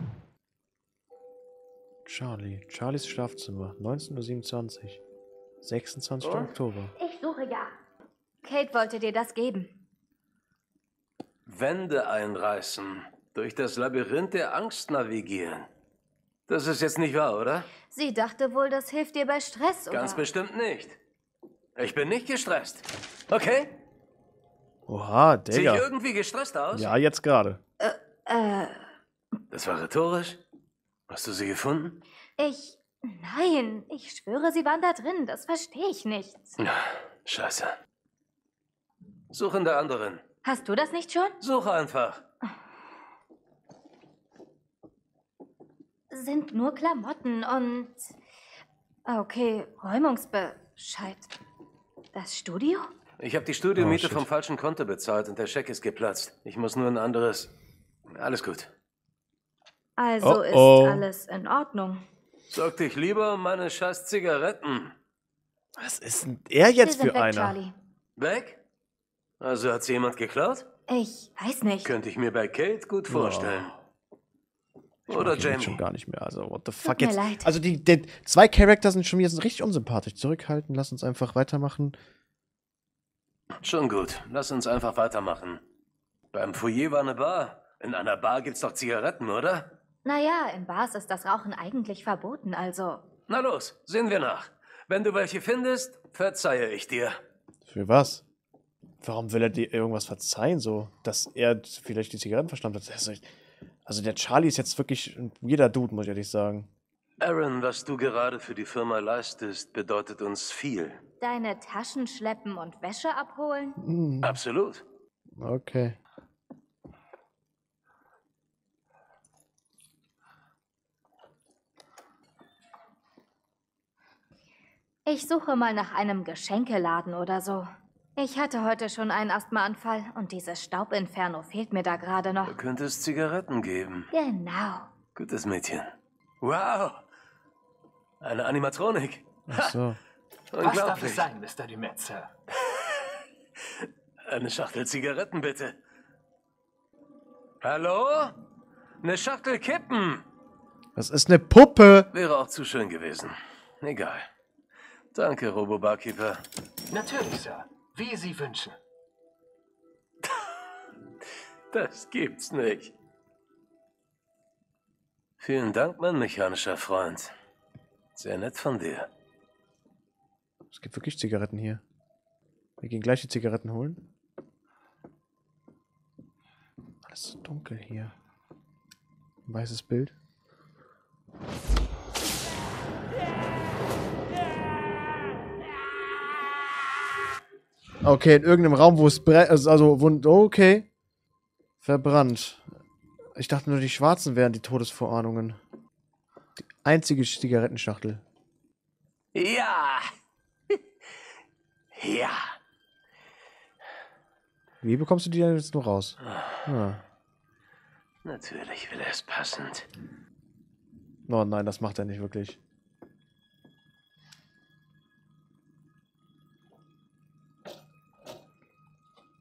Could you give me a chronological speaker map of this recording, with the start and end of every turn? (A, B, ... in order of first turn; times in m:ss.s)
0:02.0-0:05.0 A
0:05.6-0:07.0 A
0:06.2-0:06.5 B
0:07.0-0:07.7 C
0:08.4-0:09.7 C
0:11.5-0:15.7 B
0:16.5-0:17.7 B
0:17.9-0:20.2 C
0:19.9-0:21.0 B
0:21.8-0:23.8 B
0:24.9-0:25.9 A
0:25.5-0:27.0 B
0:26.7-0:27.6 A
0:27.8-0:28.8 C
0:29.5-0:30.4 B
0:31.1-0:32.0 B
0:32.4-0:36.6 C
0:36.6-0:37.8 B
0:39.3-0:40.2 B
0:40.4-0:41.4 C
0:41.4-0:42.2 B
0:46.1-0:48.1 C
0:49.1-0:51.3 C
0:52.1-0:52.9 C
0:53.2-0:57.5 B
0:53.8-0:54.2 A
0:58.1-0:58.7 B
1:00.0-1:02.0 C
1:00.2-1:01.1 A
1:02.5-1:04.9 B
1:05.8-1:07.6 A
1:06.8-1:07.8 C
1:08.2-1:08.6 B
1:09.4-1:10.6 B
1:10.9-1:11.9 C
1:11.8-1:13.7 B
1:13.1-1:13.7 A
1:15.1-1:22.0 A
1:15.1-1:15.8 B
1:16.8-1:17.5 C
1:23.6-1:25.6 B
1:26.3-1:29.7 B
1:30.0-1:33.0 C
1:33.3-1:37.2 B
1:37.7-1:38.2 A
1:39.0-1:43.3 A
1:43.9-1:46.7 A
1:47.2-1:51.0 B
1:51.2-1:53.8 C
1:53.8-1:54.4 A
1:54.2-1:54.8 B
1:55.4-1:56.0 A
2:05.1-2:12.6 C
2:12.4-2:14.1 B
2:14.1-2:14.9 C
2:15.2-2:15.9 B
2:16.4-2:17.0 B
2:18.2-2:19.8 B
2:19.5-2:20.0 A
2:20.5-2:21.3 B
2:20.6-2:22.3 D
2:22.6-2:23.1 B
2:24.2-2:25.8 B
2:27.6-2:28.4 B
2:29.0-2:30.2 B
2:31.0-2:32.1 A
2:32.1-2:34.2 B
2:35.1-2:36.4 B
2:36.9-2:38.8 D
2:41.7-2:42.9 B
2:45.4-2:47.3 B
2:48.2-2:49.1 B
2:50.7-2:51.8 A
2:52.8-2:54.0 A
2:57.0-2:58.2 A
2:59.5-3:00.2 A
3:08.0-3:10.9 A
3:11.8-3:12.8 A
3:13.4-3:15.6 A
3:16.6-3:18.2 A
3:19.3-3:20.1 B
3:21.9-3:22.5 B
3:24.8-3:27.0 A
3:26.3-3:26.6 B
3:28.2-3:29.9 B
3:31.3-3:32.6 A